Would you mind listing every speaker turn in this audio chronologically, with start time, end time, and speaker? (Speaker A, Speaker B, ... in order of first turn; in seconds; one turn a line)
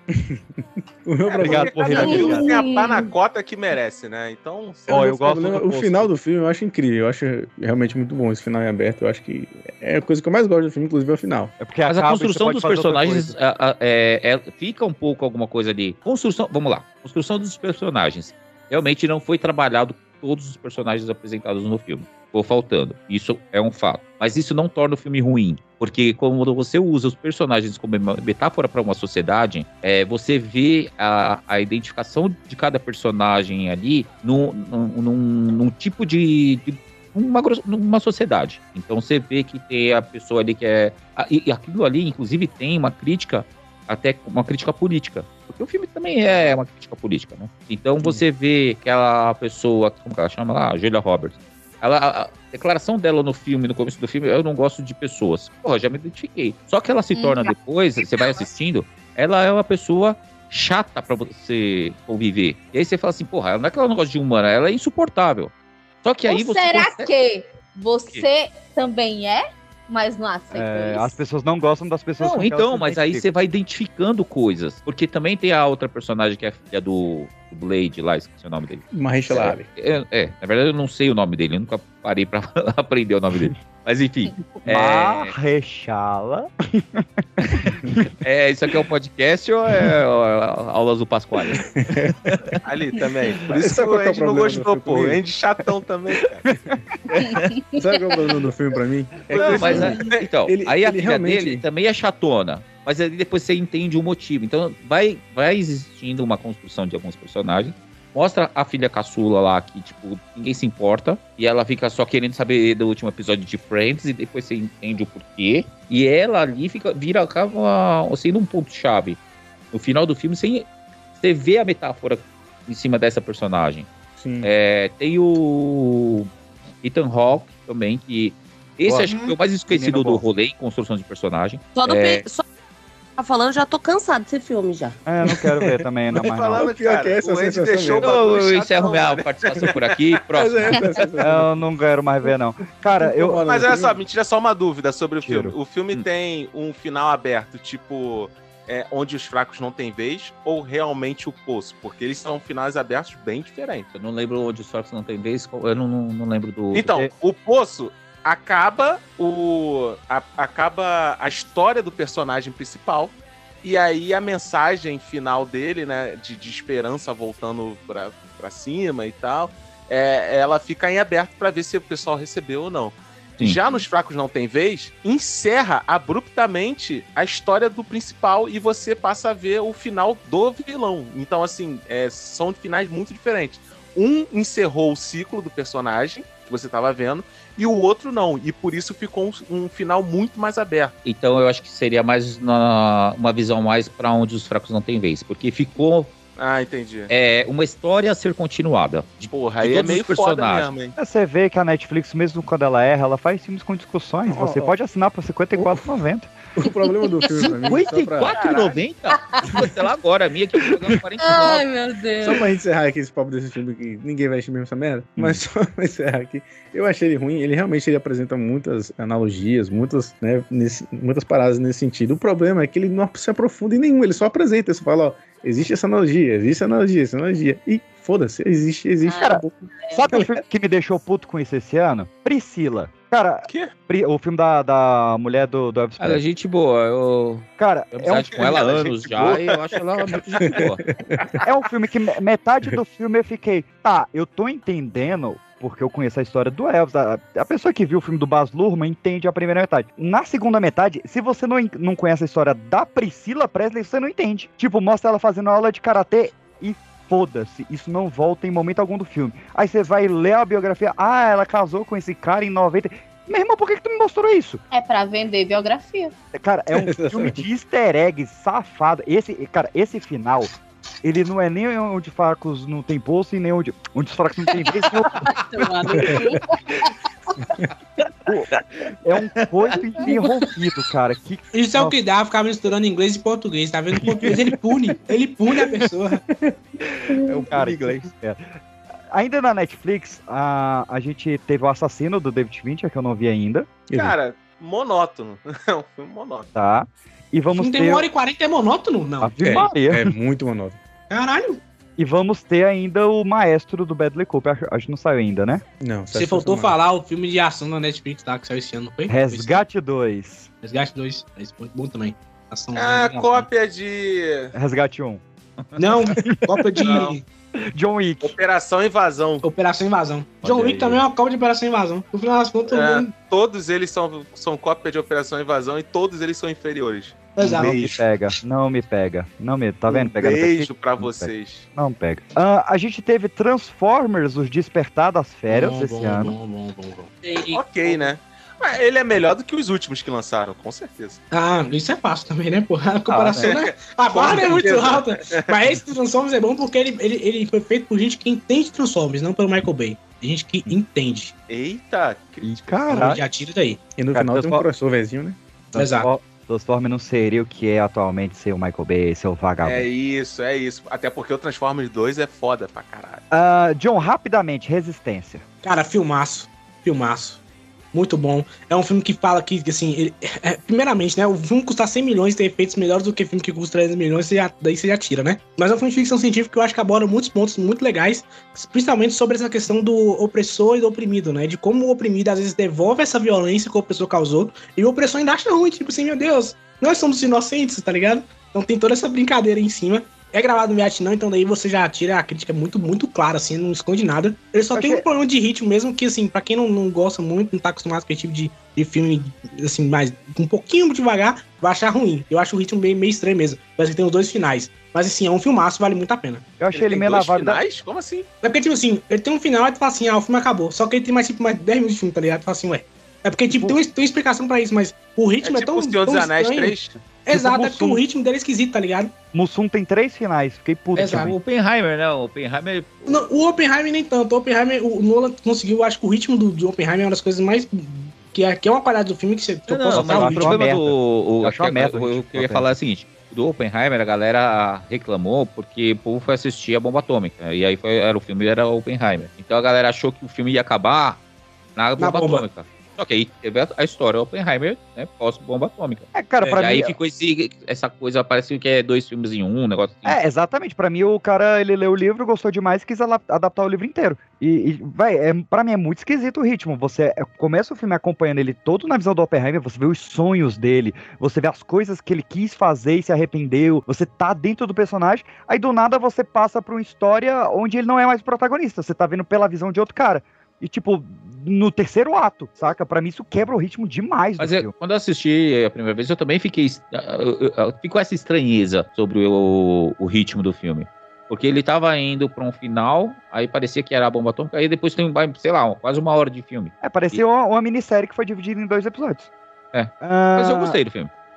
Speaker A: 0.1-2.3
Speaker B: 1.3-5.1
Speaker C: 1.4-2.5
Speaker D: 1.8-3.1
Speaker C: 4.9-6.1
Speaker A: 4.9-11.5
Speaker C: 11.6-13.4
Speaker E: 11.9-65.5
Speaker D: 57.1-57.5
Speaker E: 66.0-67.1
Speaker D: 66.3-71.2
Speaker C: 70.5-73.3
Speaker E: 72.2-85.3
Speaker A: 78.9-79.7
Speaker C: 84.6-88.1
Speaker E: 88.2-91.7
Speaker A: 91.6-92.2
Speaker E: 92.3-92.6
Speaker B: 92.7-96.4
Speaker A: 93.5-95.2
Speaker D: 97.2-98.2
Speaker A: 97.8-101.6
Speaker E: 99.3-119.2
Speaker B: 99.4-100.3
Speaker E: 119.7-123.9
Speaker A: 124.2-124.5
Speaker E: 124.4-126.3
Speaker E: 126.8-132.2
Speaker C: 128.9-130.2
Speaker F: 131.8-132.4
Speaker F: 133.2-135.0
Speaker C: 135.1-136.7
Speaker A: 135.3-135.7
Speaker B: 136.2-139.8
Speaker A: 136.5-138.2
Speaker E: 138.0-141.1
Speaker A: 140.3-141.5
Speaker C: 141.2-143.4
Speaker A: 143.0-144.0
Speaker B: 143.4-153.9
Speaker C: 145.2-145.6
Speaker E: 153.9-156.9
Speaker B: 156.7-190.9
Speaker E: 173.4-173.8
Speaker E: 191.1-196.1
Speaker B: 196.4-197.1
Speaker E: 197.1-200.7
Speaker B: 199.3-200.9
Speaker C: 201.0-206.3
Speaker A: 204.3-204.7
Speaker A: 205.6-205.8
Speaker A: 206.6-208.3
Speaker D: 206.8-207.6
Speaker E: 207.7-211.7
Speaker B: 208.3-208.8
Speaker D: 209.3-209.7
Speaker D: 211.2-212.5
Speaker A: 212.2-229.5
Speaker D: 229.1-230.1
Speaker C: 229.9-236.2
Speaker E: 236.0-240.8
Speaker C: 237.6-239.4
Speaker A: 240.4-241.3
Speaker C: 241.4-264.6
Speaker D: 264.7-266.1
Speaker C: 266.3-270.5
Speaker A: 266.8-267.4
Speaker C: 271.0-275.3
Speaker D: 274.6-276.9
Speaker A: 275.9-276.3
Speaker C: 278.3-282.0
Speaker E: 279.4-279.7
Speaker G: 281.5-286.2
Speaker C: 287.2-288.5
Speaker E: 287.4-288.0
Speaker C: 289.1-293.7
Speaker A: 293.9-294.2
Speaker B: 293.9-296.5
Speaker C: 296.6-298.1
Speaker G: 297.6-299.5
Speaker C: 299.2-300.1
Speaker A: 299.4-300.8
Speaker G: 301.1-301.6
Speaker C: 302.0-305.6
Speaker A: 305.8-306.8
Speaker G: 306.1-309.6
Speaker C: 309.1-310.5
Speaker G: 310.6-313.4
Speaker B: 312.8-314.5
Speaker C: 314.5-315.2
Speaker G: 315.8-317.2
Speaker B: 316.8-317.2
Speaker C: 317.6-318.4
Speaker B: 318.2-319.4
Speaker G: 319.4-323.1
Speaker C: 320.4-320.8
Speaker B: 322.7-328.0
Speaker G: 327.4-327.8
Speaker C: 327.5-336.3
Speaker B: 329.9-331.6
Speaker G: 335.5-337.1
Speaker B: 337.4-341.2
Speaker G: 341.3-351.3
Speaker C: 343.1-343.5
Speaker B: 343.3-345.6
Speaker B: 351.5-353.2
Speaker C: 352.4-353.2
Speaker G: 352.9-353.8
Speaker A: 354.0-355.4
Speaker C: 354.1-354.7
Speaker C: 355.7-359.9
Speaker G: 355.8-356.1
Speaker B: 359.6-363.2
Speaker C: 363.3-365.4
Speaker G: 365.6-367.4
Speaker G: 367.9-406.5
Speaker C: 394.7-395.0
Speaker C: 406.6-407.6
Speaker B: 406.7-408.3
Speaker G: 408.4-419.1
Speaker B: 415.4-416.9
Speaker C: 417.3-418.0
Speaker C: 419.3-421.4
Speaker G: 421.0-421.4
Speaker E: 421.0-423.3
Speaker G: 423.1-430.6
Speaker E: 429.7-441.2
Speaker C: 429.9-432.7
Speaker E: 441.8-450.2
Speaker G: 442.0-442.5
Speaker C: 446.1-446.9
Speaker C: 450.1-474.7
Speaker E: 474.4-487.2
Speaker C: 486.8-489.3
Speaker E: 489.7-491.1
Speaker C: 490.0-490.8